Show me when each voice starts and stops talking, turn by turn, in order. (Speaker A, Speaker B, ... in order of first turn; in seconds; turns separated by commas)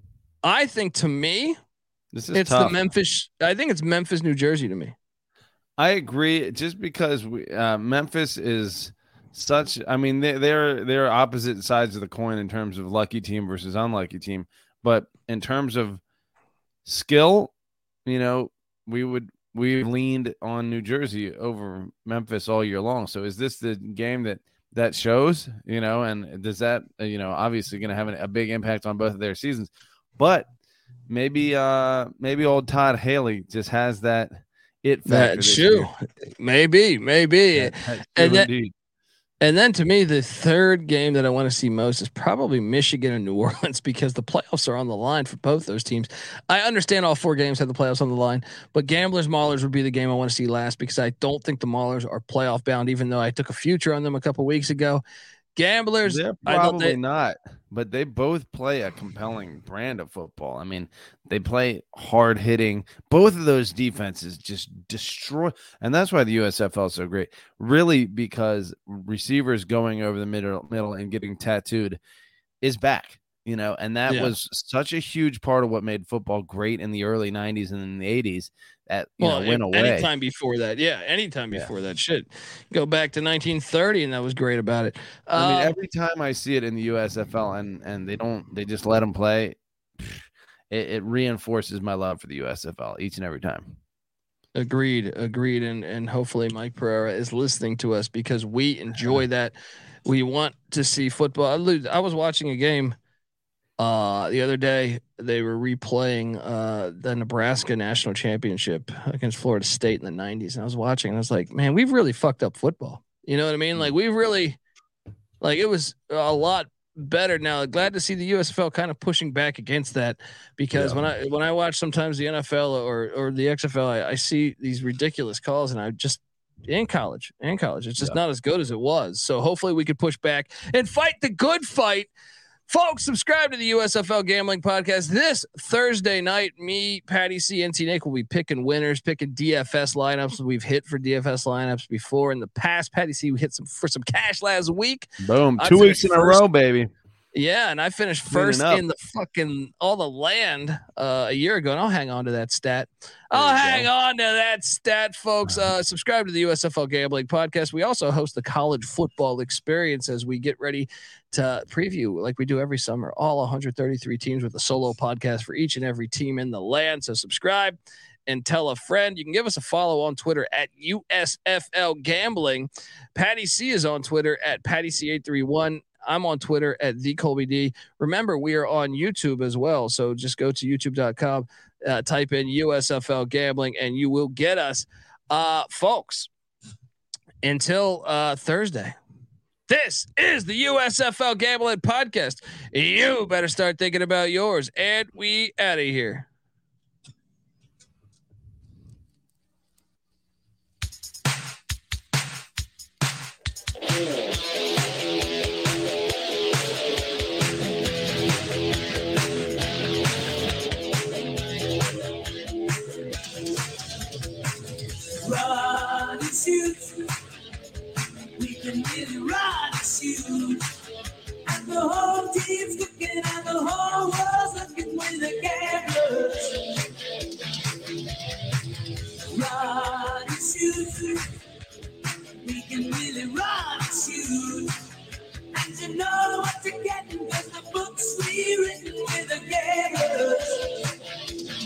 Speaker A: 0.4-1.6, Speaker B: 2.1-2.8, Speaker A: 2.3-5.0, Speaker B: 5.8-16.0, Speaker B: 16.9-17.5, Speaker B: 18.1-30.5, Speaker B: 31.1-35.9, Speaker A: 35.1-38.5, Speaker B: 37.5-38.7, Speaker A: 39.4-55.0, Speaker A: 55.6-57.0, Speaker B: 56.1-72.0, Speaker B: 72.6-80.1, Speaker A: 74.1-74.3, Speaker A: 79.2-85.8, Speaker B: 85.3-93.8, Speaker A: 94.5-99.5, Speaker A: 100.1-103.0, Speaker A: 103.8-114.6, Speaker A: 115.4-132.1, Speaker B: 120.7-121.0, Speaker A: 132.7-146.4, Speaker B: 145.2-146.9, Speaker A: 147.3-186.3, Speaker B: 148.3-148.8, Speaker B: 153.3-153.9, Speaker A: 187.4-189.0, Speaker A: 189.7-196.3, Speaker C: 215.2-217.1, Speaker C: 218.4-220.6, Speaker C: 221.4-226.8, Speaker C: 229.3-231.3, Speaker C: 232.4-234.7, Speaker C: 235.5-240.9